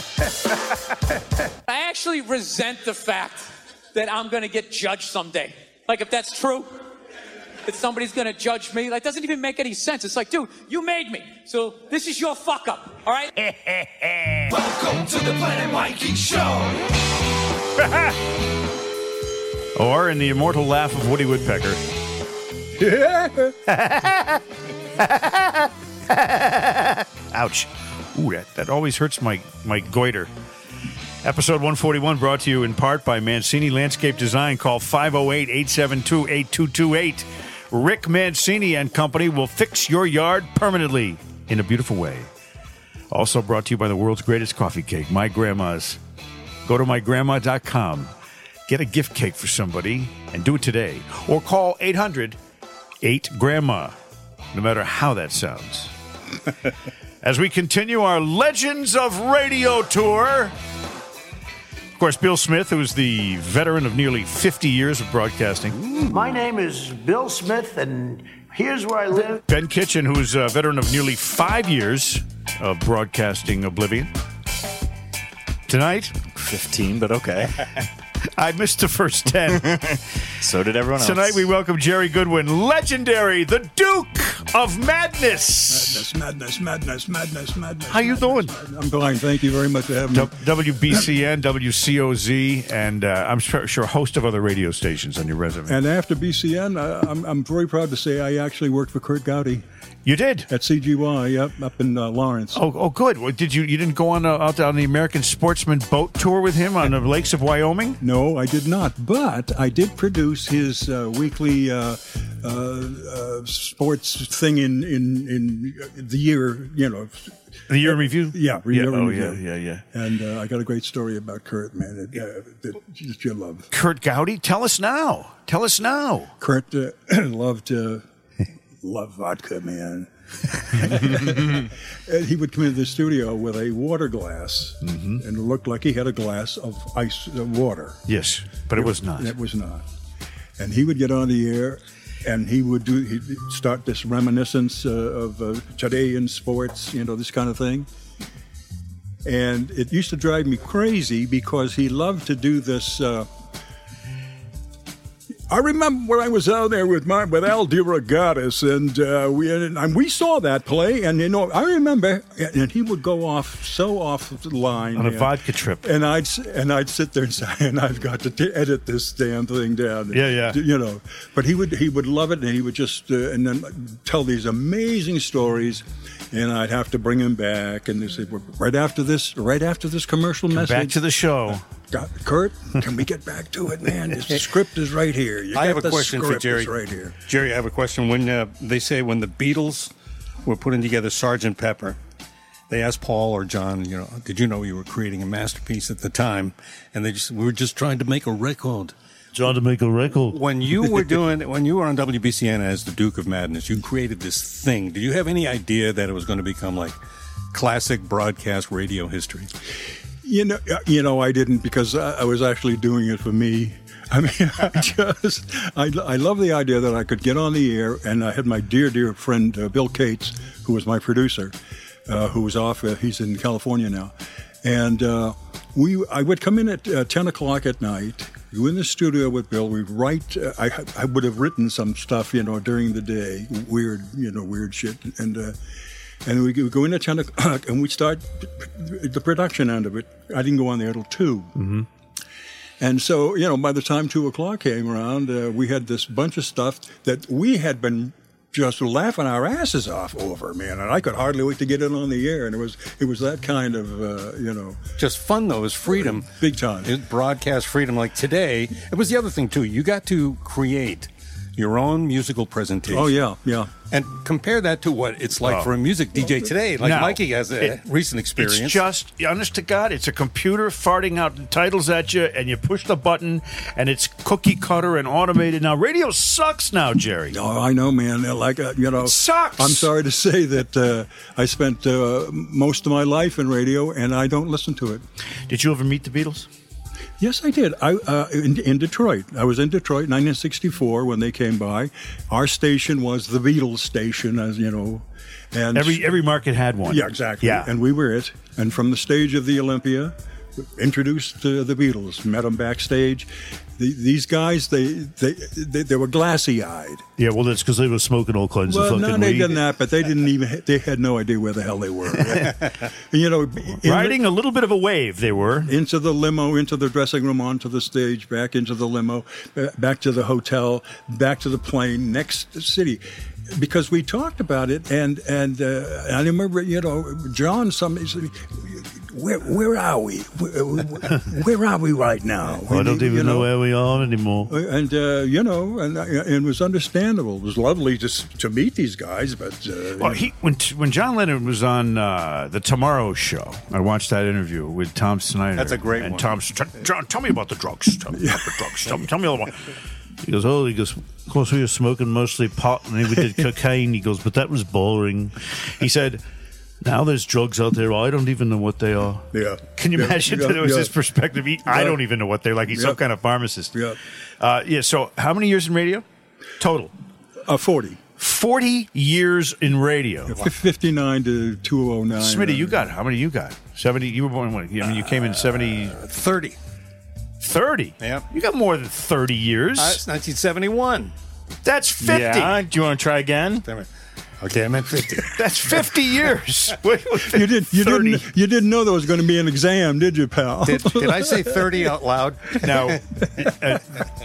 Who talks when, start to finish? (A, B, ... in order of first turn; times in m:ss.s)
0:01.6-0:06.8 A
0:07.6-0:13.3 A
0:13.4-0:14.4 B
0:14.5-0:16.8 C
0:19.7-0:21.8 B
0:22.8-0:23.5 D
0:23.7-0:24.4 B
0:25.0-0:30.3 B
0:31.2-0:42.3 B
0:43.1-0:46.0 B
0:46.6-0:48.1 B
0:48.7-0:52.4 B
0:53.0-0:53.9 B
0:54.5-0:55.9 B
0:57.2-1:00.5 B
1:02.0-1:06.0 B
1:06.0-1:09.4 E
1:09.1-1:14.1 B
1:15.7-1:16.2 B
1:16.4-1:17.8 F
1:18.2-1:19.9 B
1:19.5-1:21.4 F
1:21.0-1:26.0 B
1:25.7-1:31.0 D
1:27.9-1:28.6 B
1:30.1-1:35.8 B
1:35.7-1:39.6 D
1:40.0-1:40.5 B
1:40.5-1:42.6 D
1:42.5-1:48.0 B
1:48.0-2:03.7 D
1:57.7-1:59.8 B
2:03.7-2:06.3 B
2:06.4-2:08.0 D
2:08.8-2:18.0 D
2:14.8-2:15.2 B
2:18.1-2:19.3 B
2:18.7-2:19.8 D
2:20.6-2:27.9 D
2:29.2-2:33.3 D
2:35.5-3:01.0 D
2:45.0-2:45.9 B
2:50.1-2:50.6 B
3:00.5-3:01.6 B
3:01.9-3:07.1 D
3:05.5-3:06.7 G
3:07.2-3:09.9 G
3:10.4-3:12.0 G
3:12.7-3:18.9 G
3:19.3-3:20.4 B
3:20.3-3:27.0 G
3:27.5-3:29.5 G
3:30.2-3:41.5 D
3:42.1-3:55.6 D
3:56.2-4:01.6 D
4:01.6-4:01.8 B
4:02.8-4:14.8 D
4:15.0-4:16.3 G
4:15.9-4:16.9 D
4:16.8-4:23.1 G
4:22.9-4:23.7 D
4:23.9-4:28.8 G
4:25.4-4:25.7 B
4:26.8-4:27.8 B
4:28.4-4:37.4 B
4:37.3-4:45.0 D
4:39.0-4:39.9 B
4:45.5-4:46.5 B
4:47.2-4:56.2 D
4:55.7-4:57.7 B
4:56.8-5:07.0 D
5:07.2-5:09.6 B
5:08.7-5:14.2 D
5:13.8-5:15.7 B
5:15.6-5:33.5 D
5:32.7-5:34.5 B
5:34.5-5:40.3 D
5:40.0-5:49.6 B
5:45.6-5:46.3 G
5:48.1-5:48.7 D
5:50.2-5:56.2 B
5:56.8-6:03.8 B
5:59.3-6:00.9 D
6:01.6-6:02.0 D
6:02.7-6:03.0 D
6:03.7-6:04.0 D
6:04.4-6:06.0 B
6:06.6-6:06.9 B
6:07.4-6:08.0 D
6:08.2-6:10.4 B
6:10.3-6:12.9 D
6:12.2-6:16.0 B
6:15.9-6:16.6 G
6:17.4-6:20.0 B
6:18.0-6:18.2 G
6:19.8-6:21.1 G
6:21.6-6:22.6 B
6:22.0-6:23.6 F
6:24.4-6:25.4 G
6:25.3-6:28.3 B
6:27.2-6:31.9 D
6:30.6-6:33.0 G
6:32.6-6:34.0 B